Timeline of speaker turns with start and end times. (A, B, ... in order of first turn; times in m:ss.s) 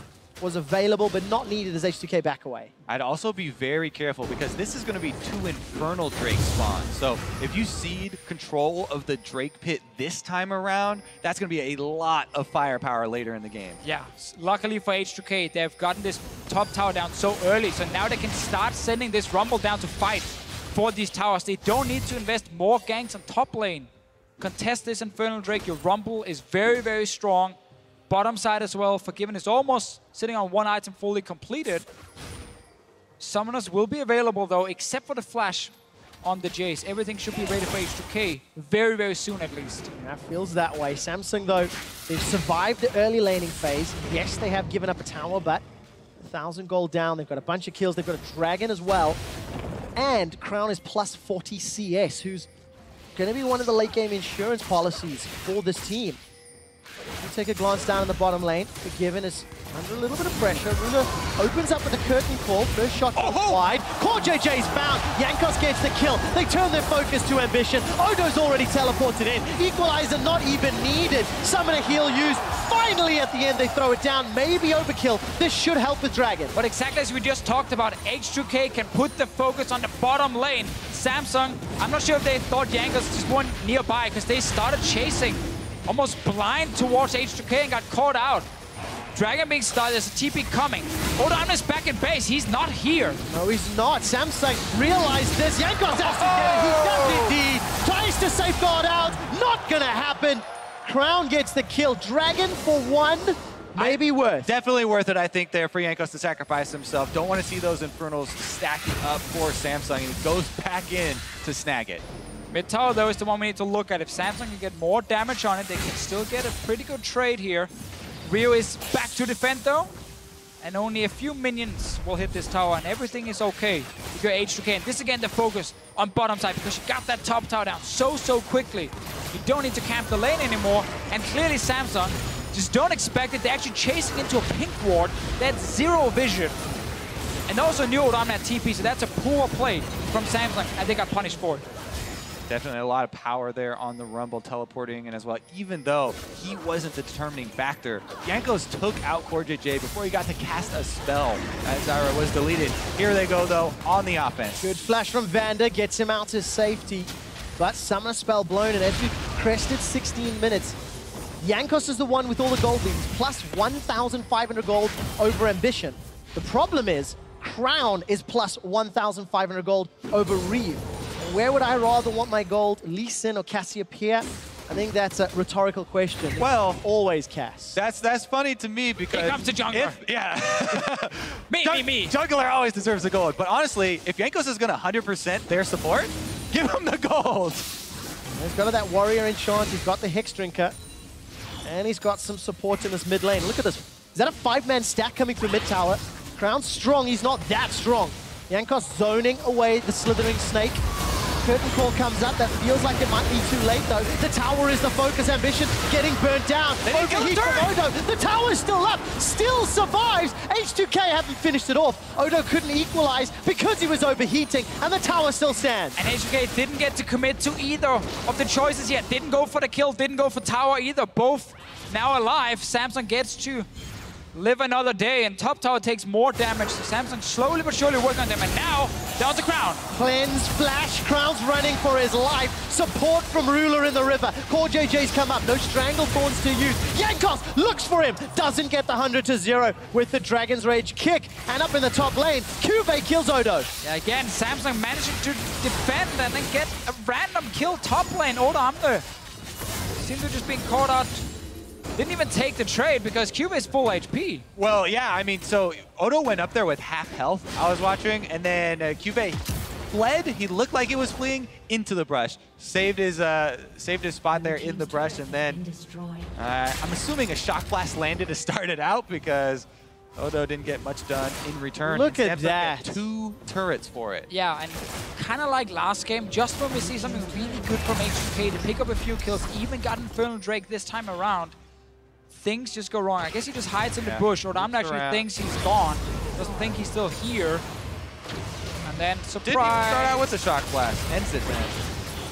0:00.4-0:02.7 A
0:02.9-0:13.8 B
0:13.8-0:27.6 C
0:28.1-0:31.8 C
0:33.2-0:39.9 C
0:39.9-0:45.6 A
0:46.2-0:49.2 A
0:49.9-0:52.5 A
0:53.1-0:56.2 A
0:57.2-1:16.5 A
1:03.1-1:03.6 B
1:16.5-1:28.5 C
1:29.1-1:33.2 C
1:33.3-1:44.5 A
1:36.0-1:37.3 B
1:43.8-1:52.0 B
1:52.5-1:57.7 C
1:58.2-1:59.9 C
2:00.6-2:16.6 C
2:17.5-2:21.6 C
2:22.5-2:34.6 B
2:34.6-2:40.8 A
2:41.4-2:57.8 A
2:56.4-2:56.8 B
2:57.7-3:07.6 B
2:59.1-3:00.0 C
3:01.5-3:02.2 C
3:08.4-3:10.7 A
3:11.6-3:20.8 A
3:21.4-3:36.0 A
3:26.8-3:27.7 C
3:27.0-3:27.4 B
3:36.0-3:43.7 C
3:44.3-3:49.8 C
3:49.9-4:03.7 A
4:03.8-4:09.1 C
4:10.0-4:11.2 C
4:11.9-4:14.4 C
4:14.6-4:19.4 B
4:19.9-4:25.8 B
4:26.3-4:29.6 B
4:30.2-4:34.3 B
4:31.8-4:33.0 A
4:34.3-4:41.6 C
4:42.3-4:47.6 C
4:44.0-4:45.2 B
4:48.8-4:50.1 C
4:49.4-4:51.8 B